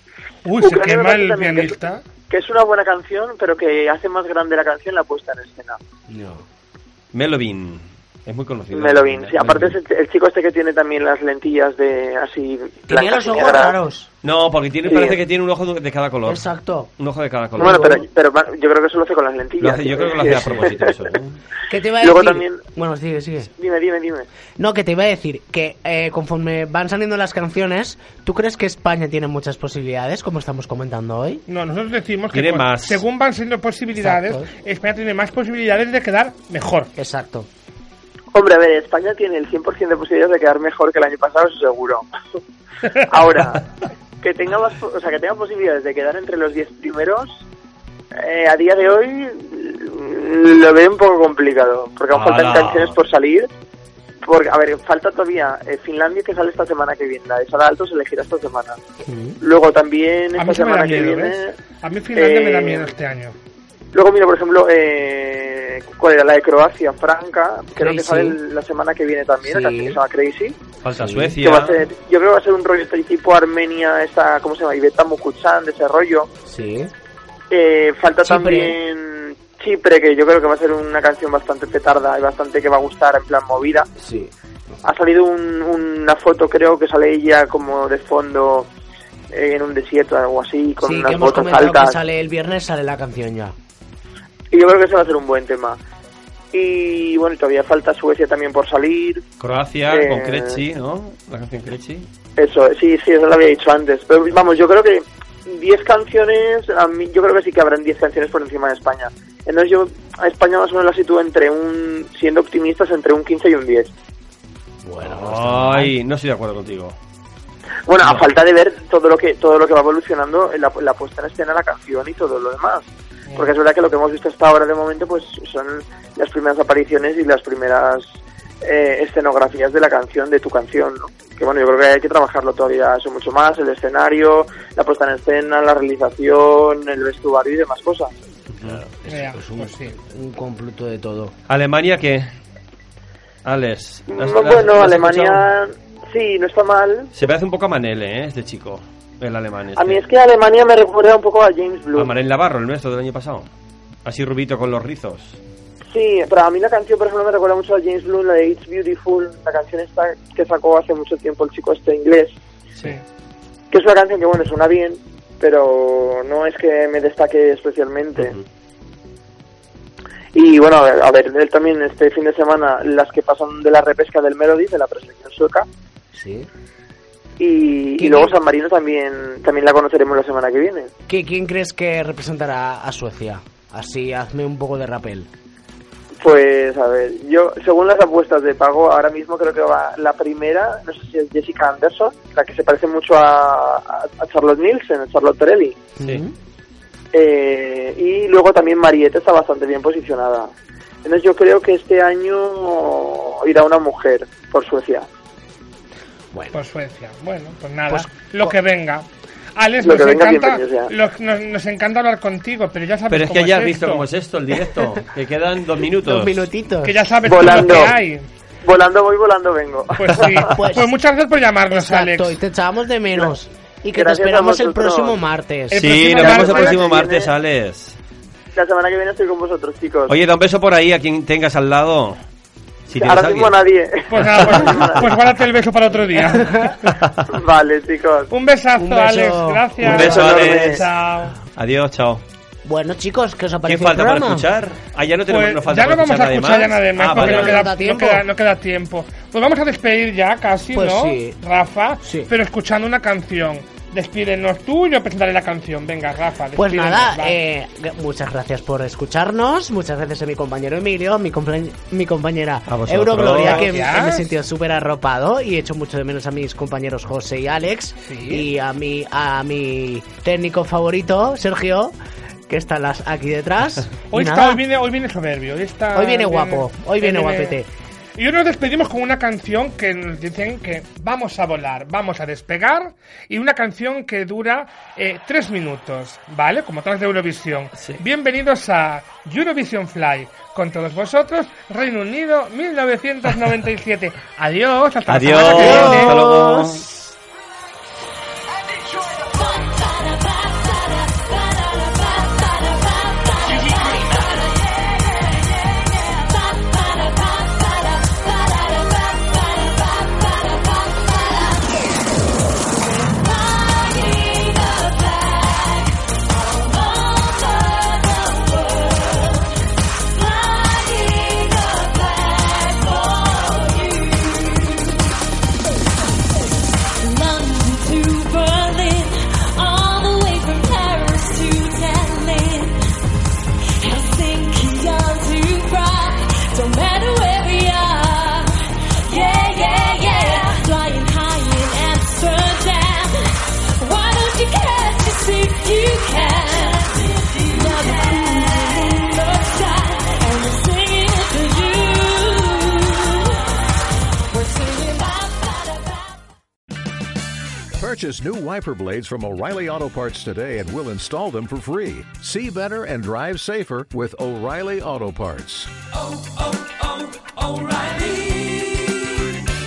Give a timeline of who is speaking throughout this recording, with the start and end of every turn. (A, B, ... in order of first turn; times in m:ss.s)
0:00.4-0:02.0 A
0:00.6-0:01.8 B
0:02.3-0:05.8 B
0:06.1-0:06.4 C
0:07.1-0:09.8 D
0:08.7-0:13.8 B
0:12.9-0:14.1 C
0:14.2-0:16.4 D
0:14.8-0:15.2 B
0:16.3-0:16.9 C
0:17.0-0:18.0 D
0:17.6-0:18.0 C
0:17.6-0:21.1 B
0:19.6-0:21.4 D
0:21.7-0:23.5 C
0:22.0-0:22.6 B
0:23.6-0:24.3 B
0:24.6-0:31.4 C
0:31.5-0:36.9 A
0:32.3-0:33.0 D
0:34.0-0:34.5 C
0:37.0-0:37.5 C
0:38.3-0:42.4 B
0:43.1-0:43.6 B
0:44.2-0:47.4 B
0:48.2-0:53.5 B
0:52.1-0:53.0 D
0:54.2-0:58.8 B
0:59.0-0:59.4 C
0:59.4-1:01.6 B
1:00.3-1:03.4 A
1:02.2-1:02.9 B
1:03.9-1:10.6 B
1:07.8-1:08.4 C
1:09.5-1:10.0 C
1:10.8-1:11.8 D
1:11.0-1:11.4 C
1:11.4-1:16.3 B
1:16.5-1:16.9 C
1:17.5-1:23.9 B
1:18.2-1:18.8 C
1:24.0-1:24.3 C
1:24.8-1:28.7 B
1:29.3-1:32.0 B
1:30.8-1:33.6 C
1:34.5-1:35.8 B
1:36.5-1:39.2 B
1:39.4-1:42.1 D
1:39.8-1:40.6 B
1:42.4-1:53.9 B
1:54.8-1:55.9 C
1:55.0-1:57.0 D
1:57.9-2:18.1 B
2:03.3-2:03.6 A
2:18.5-2:18.9 D
2:19.0-2:20.0 A
2:19.0-2:21.3 C
2:21.5-2:22.2 D
2:23.4-2:25.5 D
2:24.1-2:27.1 B
2:27.1-2:30.0 D
2:29.8-2:32.1 B
2:32.0-2:33.5 D
2:34.0-2:35.4 D
2:35.9-2:42.4 B
2:43.7-2:48.4 B
2:50.3-2:55.7 B
2:56.1-2:56.5 C
2:57.4-3:00.9 B
2:58.0-2:58.3 C
3:01.1-3:05.3 C
3:06.2-3:15.8 B
3:16.0-3:16.3 C
3:17.1-3:20.5 B
3:21.0-3:25.1 B
3:26.5-3:34.1 A
3:27.9-3:28.5 C
3:29.8-3:30.9 B
3:33.1-3:36.5 D
3:36.0-3:37.0 C
3:36.8-3:38.3 A
3:37.2-3:38.0 B
3:38.6-3:40.5 B
3:40.0-3:42.4 A
3:40.5-3:40.9 C
3:41.7-3:46.8 C
3:43.9-3:45.2 B
3:45.7-3:47.0 A
3:45.7-3:48.0 D
3:46.4-3:47.3 B
3:48.6-3:50.2 B
3:50.1-3:52.2 D
3:52.9-3:53.6 D
3:52.9-3:55.1 B
3:54.1-3:56.7 A
3:54.3-3:55.1 D
3:56.4-3:56.7 C
3:56.9-3:57.2 D
3:57.3-3:58.3 B
3:58.3-4:01.4 A
3:58.8-4:00.0 C
3:59.8-4:00.9 D
3:59.9-4:00.8 B
4:01.5-4:02.2 D
4:02.6-4:04.5 C
4:03.6-4:07.6 D
4:05.3-4:17.4 A
4:07.1-4:08.2 C
4:10.7-4:11.4 C
4:12.0-4:12.3 C
4:16.6-4:32.0 C
4:22.7-4:23.7 D
4:23.4-4:24.3 A
4:28.0-4:28.5 A
4:32.5-4:34.6 C
4:34.1-4:37.6 A
4:35.9-4:37.7 C
4:38.2-4:56.2 A
4:55.1-4:56.9 D
4:55.5-4:56.9 C
4:58.7-5:11.9 E
5:12.6-5:19.5 E
5:20.0-5:25.1 E
5:27.0-5:32.8 E
5:33.8-5:38.5 E
5:39.1-5:43.3 E
5:43.8-5:53.5 E
5:54.3-5:56.2 E
5:57.8-6:05.8 F
6:07.6-6:08.1 F